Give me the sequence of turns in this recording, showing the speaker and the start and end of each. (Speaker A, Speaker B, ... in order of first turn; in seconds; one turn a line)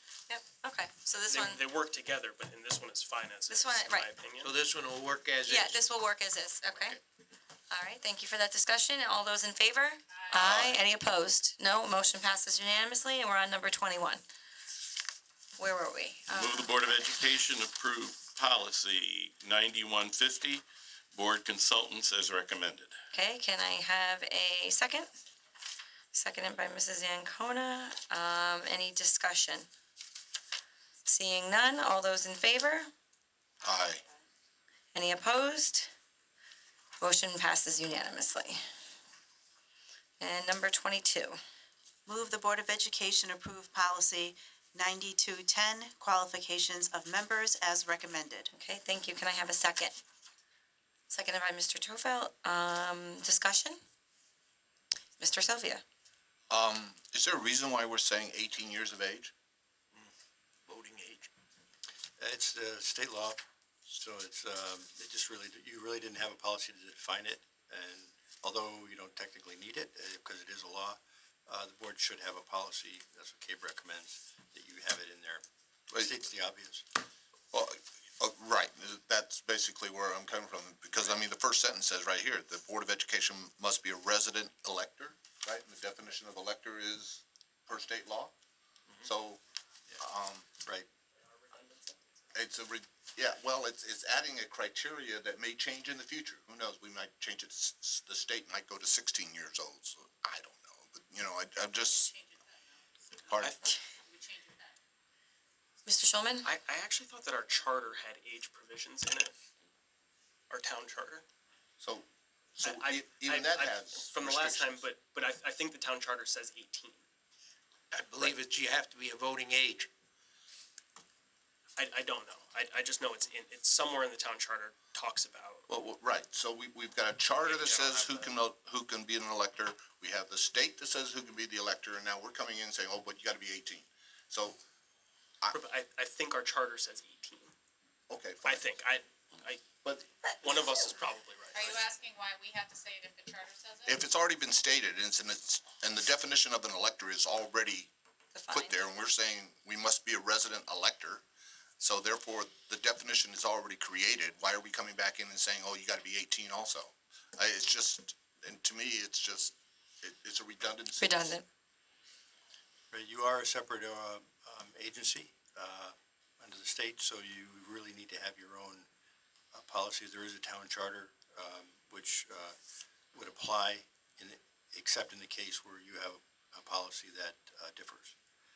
Speaker A: 0.3-1.6
Speaker B: 1.3-4.5
Speaker A: 3.5-4.1
Speaker C: 4.4-5.9
Speaker A: 5.5-7.0
Speaker C: 6.7-7.0
Speaker A: 7.7-14.2
Speaker D: 10.4-10.8
Speaker A: 15.6-17.2
Speaker D: 16.4-23.0
Speaker A: 23.1-25.1
Speaker A: 26.1-29.7
Speaker A: 31.1-32.9
Speaker E: 33.6-34.0
Speaker A: 34.9-35.9
Speaker A: 37.0-38.6
Speaker A: 40.2-41.4
Speaker F: 42.0-48.5
Speaker A: 48.5-50.0
Speaker A: 51.1-53.8
Speaker A: 55.2-55.8
Speaker E: 56.5-59.3
Speaker C: 60.6-61.3
Speaker G: 62.2-76.9
Speaker E: 77.5-88.3
Speaker E: 89.0-89.4
Speaker E: 90.0-90.5
Speaker B: 91.3-92.2
Speaker E: 92.3-102.1
Speaker E: 103.3-103.6
Speaker H: 104.1-104.7
Speaker A: 105.8-106.5
Speaker B: 106.4-109.3
Speaker B: 110.5-111.2
Speaker E: 111.8-112.0
Speaker E: 112.6-114.8
Speaker B: 112.6-117.0
Speaker C: 117.9-119.9
Speaker B: 121.8-125.7
Speaker E: 125.7-134.6
Speaker B: 127.4-128.3
Speaker B: 135.5-137.5
Speaker E: 138.1-138.7
Speaker B: 138.4-139.6
Speaker B: 140.4-142.0
Speaker H: 141.5-144.0
Speaker E: 143.8-147.9
Speaker A: 148.3-148.8
Speaker E: 148.5-151.2
Speaker E: 151.8-161.4
Speaker A: 161.0-161.4
Speaker G: 162.9-168.9
Speaker G: 169.5-172.6
Speaker G: 173.1-178.2